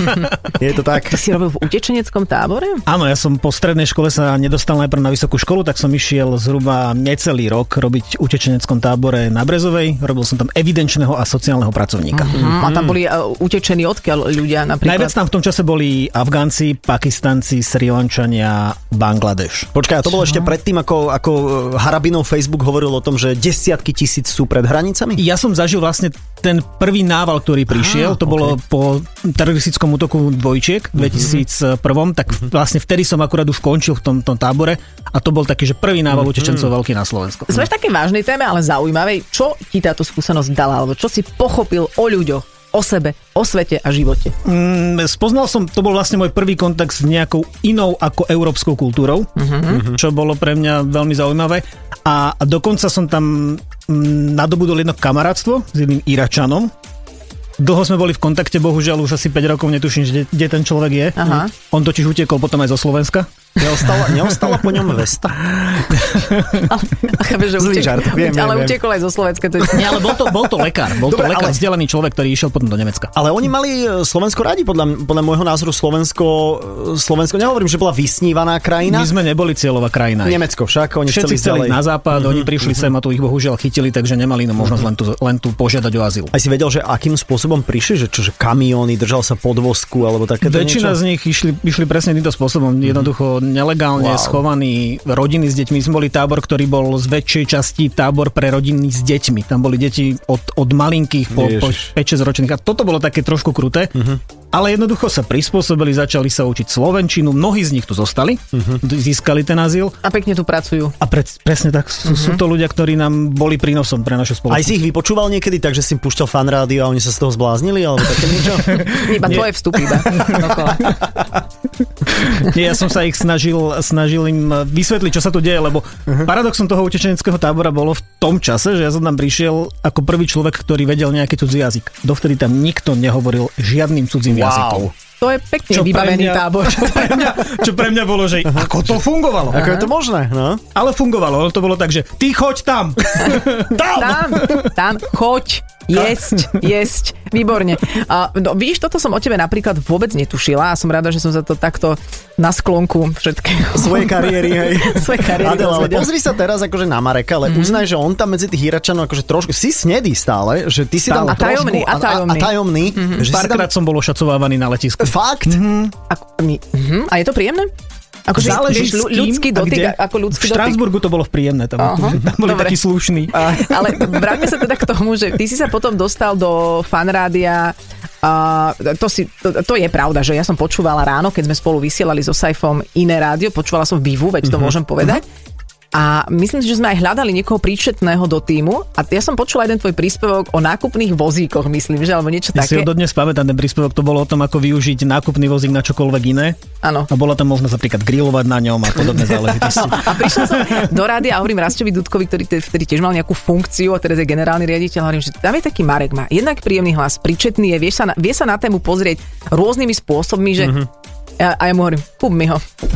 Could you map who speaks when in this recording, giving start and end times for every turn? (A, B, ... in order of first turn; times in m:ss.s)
0:00.6-0:01.2 A
0:01.1-0:02.8 B
0:02.9-0:12.4 C
0:12.1-0:15.2 B
0:12.4-0:13.0 A
0:14.8-0:19.7 C
0:19.7-0:25.2 A
0:25.2-0:37.6 C
0:31.0-0:31.3 A
0:36.1-0:36.7 A
0:37.5-0:44.4 B
0:44.4-0:56.7 C
0:49.4-0:49.8 B
0:57.6-1:03.3 C
1:01.2-1:01.5 B
1:03.6-1:05.4 A
1:05.5-1:06.6 C
1:06.7-1:10.0 B
1:07.6-1:08.8 A
1:09.7-1:13.1 C
1:11.0-1:11.6 A
1:13.2-1:19.1 A
1:18.8-1:20.4 C
1:20.2-1:22.8 A
1:21.1-1:26.3 C
1:26.3-1:31.0 A
1:30.4-1:43.9 C
1:34.0-1:34.4 A
1:41.3-1:41.9 A
1:44.0-1:44.2 A
1:44.5-1:49.9 C
1:48.5-1:48.8 A
1:50.0-1:51.0 B
1:51.0-1:54.7 C
1:52.1-1:52.4 B
1:54.5-1:59.4 A
1:58.7-2:01.1 C
1:59.0-2:00.8 B
2:00.1-2:00.9 A
2:02.1-2:14.9 C
2:14.3-2:14.9 A
2:15.2-2:17.4 B
2:15.7-2:19.7 C
2:19.5-2:20.6 A
2:19.5-2:19.8 B
2:20.8-2:23.8 C
2:23.7-2:24.4 A
2:23.9-2:36.1 B
2:24.4-2:24.7 C
2:33.7-2:43.7 A
2:37.5-2:37.8 B
2:41.1-2:43.2 B
2:43.2-2:45.9 C
2:45.0-2:45.6 A
2:46.1-2:47.7 B
2:48.3-2:50.8 B
2:48.3-2:54.0 C
2:51.8-2:52.8 B
2:53.3-3:05.3 B
3:05.9-3:12.9 B
3:12.6-3:16.6 C
3:16.8-3:17.1 B
3:17.1-3:20.9 C
3:19.8-3:30.8 B
3:30.6-3:30.9 A
3:31.4-3:32.6 B